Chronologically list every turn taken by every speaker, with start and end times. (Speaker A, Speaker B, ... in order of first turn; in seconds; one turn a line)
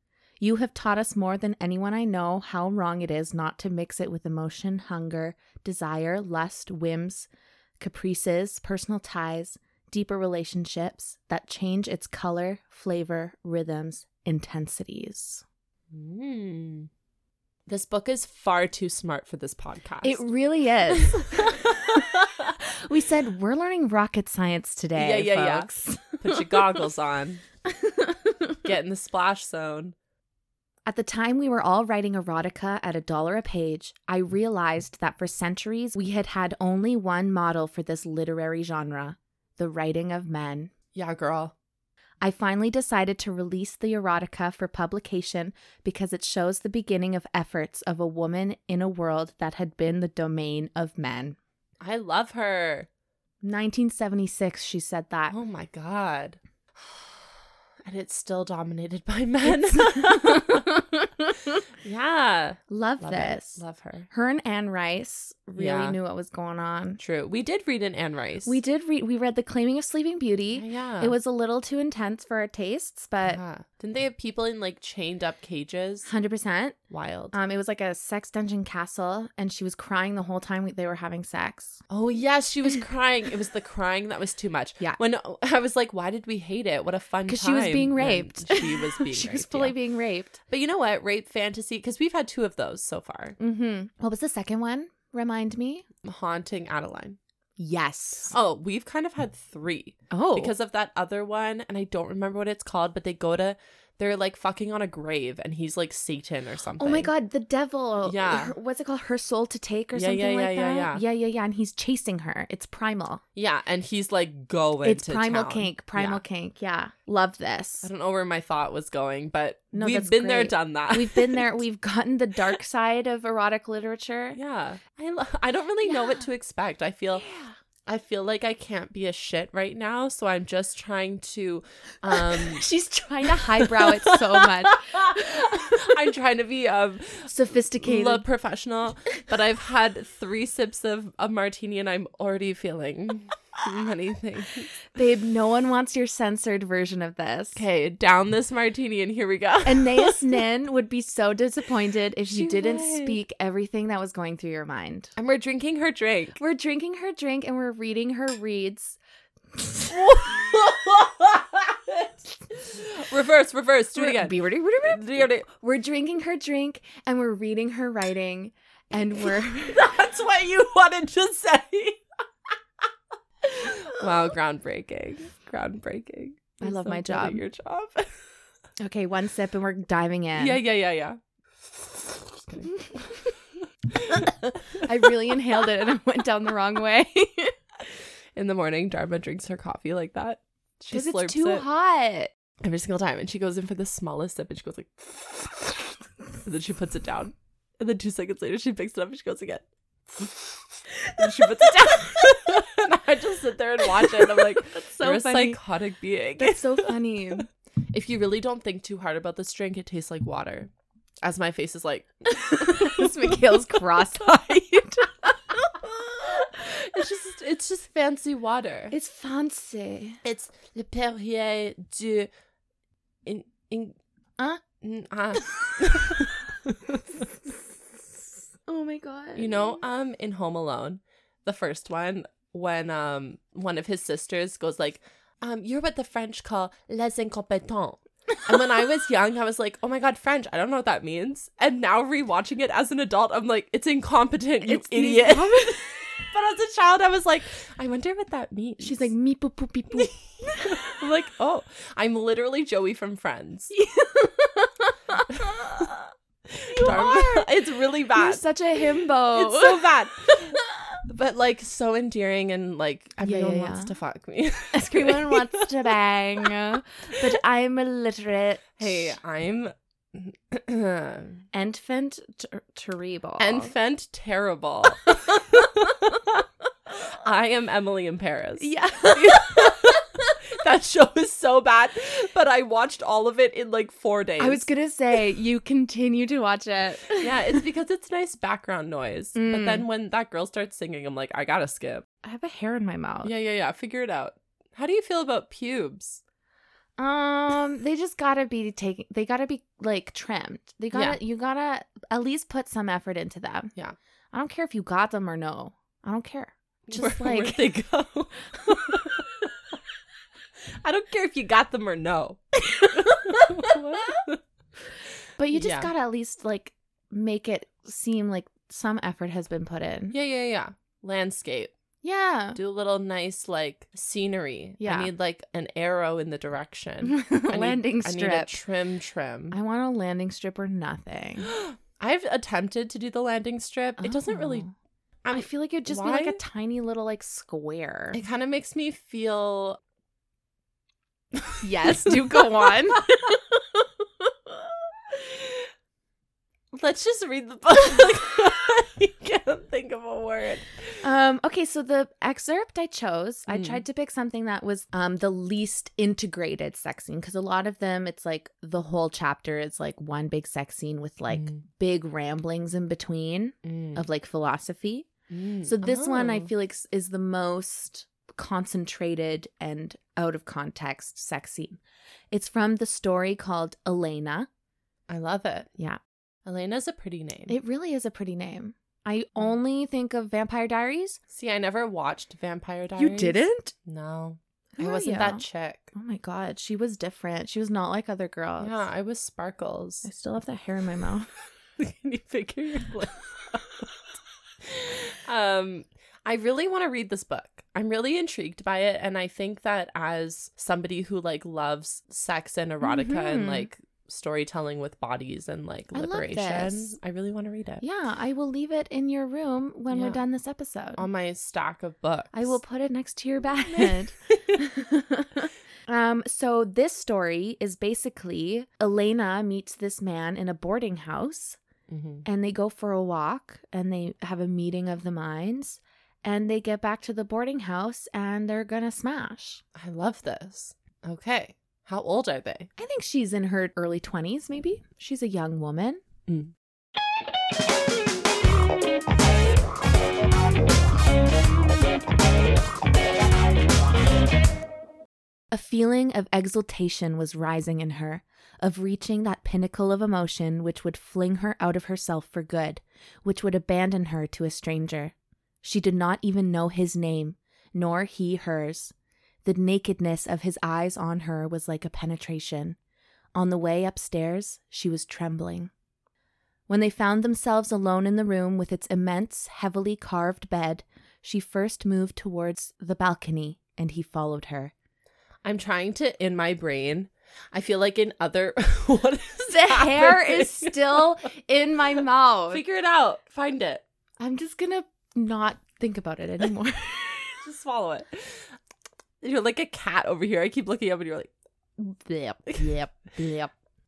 Speaker A: 0.4-7.3
Speaker A: 7.8-15.4
Speaker B: 15.9-16.9
Speaker B: 17.7-20.2
Speaker A: 20.0-26.9
Speaker B: 20.9-22.5
Speaker B: 24.9-27.4
Speaker A: 27.7-28.6
Speaker B: 28.6-29.9
Speaker A: 30.9-40.7
Speaker B: 41.0-41.5
Speaker A: 42.2-51.4
Speaker B: 51.8-52.9
Speaker A: 53.4-55.4
Speaker B: 55.3-60.7
Speaker A: 59.9-61.6
Speaker B: 61.8-64.1
Speaker A: 62.7-67.0
Speaker B: 65.6-66.0
Speaker B: 67.0-68.6
Speaker A: 68.5-73.4
Speaker B: 70.5-71.2
Speaker B: 73.2-76.1
Speaker A: 76.0-76.8
Speaker B: 76.9-77.3
Speaker A: 77.3-81.8
Speaker B: 81.9-89.8
Speaker A: 87.3-90.4
Speaker B: 90.5-93.4
Speaker A: 93.4-95.8
Speaker B: 96.0-97.2
Speaker A: 97.6-98.3
Speaker B: 98.3-107.1
Speaker A: 100.1-100.5
Speaker A: 106.8-113.2
Speaker B: 108.0-108.5
Speaker B: 110.0-111.0
Speaker B: 113.4-116.2
Speaker A: 114.8-117.9
Speaker B: 117.8-121.6
Speaker A: 119.7-124.4
Speaker B: 124.3-127.3
Speaker A: 125.8-126.2
Speaker A: 127.2-127.6
Speaker B: 127.9-132.7
Speaker A: 132.1-135.9
Speaker B: 133.2-144.7
Speaker A: 137.3-138.2
Speaker A: 144.9-147.6
Speaker B: 147.6-150.4
Speaker A: 149.6-155.1
Speaker B: 152.3-153.2
Speaker B: 155.2-156.4
Speaker A: 156.4-159.0
Speaker A: 159.5-160.2
Speaker B: 159.9-165.4
Speaker A: 163.9-169.9
Speaker B: 169.2-172.0
Speaker B: 173.4-178.2
Speaker A: 176.6-177.4
Speaker A: 178.8-180.6
Speaker B: 180.4-182.8
Speaker B: 183.9-184.9
Speaker A: 184.8-187.6
Speaker B: 188.3-191.7
Speaker A: 190.9-192.3
Speaker B: 192.6-207.0
Speaker A: 201.1-202.1
Speaker A: 204.0-205.6
Speaker A: 206.4-207.5
Speaker B: 207.9-210.7
Speaker B: 211.2-214.4
Speaker A: 212.3-215.6
Speaker B: 215.8-218.9
Speaker A: 218.9-220.2
Speaker B: 220.2-222.3
Speaker B: 223.2-224.0
Speaker B: 224.8-227.0
Speaker A: 228.7-229.8
Speaker B: 229.4-249.1
Speaker A: 244.6-246.2
Speaker A: 248.8-251.0
Speaker B: 250.0-253.7
Speaker A: 253.7-256.1
Speaker B: 255.3-255.9
Speaker B: 256.5-266.5
Speaker A: 256.7-257.5
Speaker A: 258.1-261.0
Speaker A: 263.2-263.9
Speaker A: 264.7-269.2
Speaker B: 268.8-271.4
Speaker A: 271.5-273.7
Speaker B: 273.4-284.6
Speaker A: 278.6-280.0
Speaker A: 284.4-287.6
Speaker B: 287.2-292.1
Speaker A: 289.4-289.9
Speaker A: 292.2-293.3
Speaker B: 293.2-296.2
Speaker A: 297.0-303.7
Speaker A: 304.3-307.7
Speaker B: 306.9-309.4
Speaker B: 310.8-312.4
Speaker A: 312.6-314.2
Speaker B: 312.9-314.4
Speaker A: 315.4-320.1
Speaker B: 315.5-315.9
Speaker B: 320.1-321.7
Speaker A: 322.0-322.6
Speaker B: 322.6-329.6
Speaker A: 324.8-325.1
Speaker A: 327.0-328.6
Speaker A: 329.5-331.5
Speaker B: 331.4-334.7
Speaker A: 334.0-334.7
Speaker B: 335.2-336.4
Speaker A: 335.3-338.2
Speaker B: 338.1-339.8
Speaker B: 341.3-342.7
Speaker A: 341.6-344.6
Speaker B: 346.7-351.0
Speaker A: 351.0-365.1
Speaker B: 353.5-353.8
Speaker B: 361.3-361.6
Speaker B: 363.6-364.1
Speaker B: 365.3-366.5
Speaker A: 365.6-371.8
Speaker A: 372.3-374.5
Speaker B: 375.1-375.7
Speaker B: 376.5-377.5
Speaker A: 377.5-381.2
Speaker B: 381.3-385.9
Speaker A: 383.0-383.7
Speaker A: 384.8-388.9
Speaker B: 388.6-390.1
Speaker A: 390.1-391.3
Speaker B: 391.8-407.8
Speaker A: 402.8-403.7
Speaker A: 405.9-406.9
Speaker A: 407.8-411.0
Speaker B: 409.9-410.2
Speaker B: 411.0-412.6
Speaker A: 412.3-421.6
Speaker B: 413.6-414.6
Speaker B: 421.9-422.2
Speaker A: 422.2-429.6
Speaker B: 429.8-432.7
Speaker A: 432.8-436.0
Speaker B: 436.3-436.5
Speaker A: 445.5-458.9
Speaker A: 459.4-462.8
Speaker A: 463.4-465.7
Speaker A: 466.7-474.7
Speaker B: 475.4-481.1
Speaker A: 479.5-482.6
Speaker B: 482.5-483.8
Speaker A: 484.2-487.4
Speaker B: 487.4-488.6
Speaker B: 489.2-491.3
Speaker B: 491.8-492.7
Speaker A: 492.1-493.5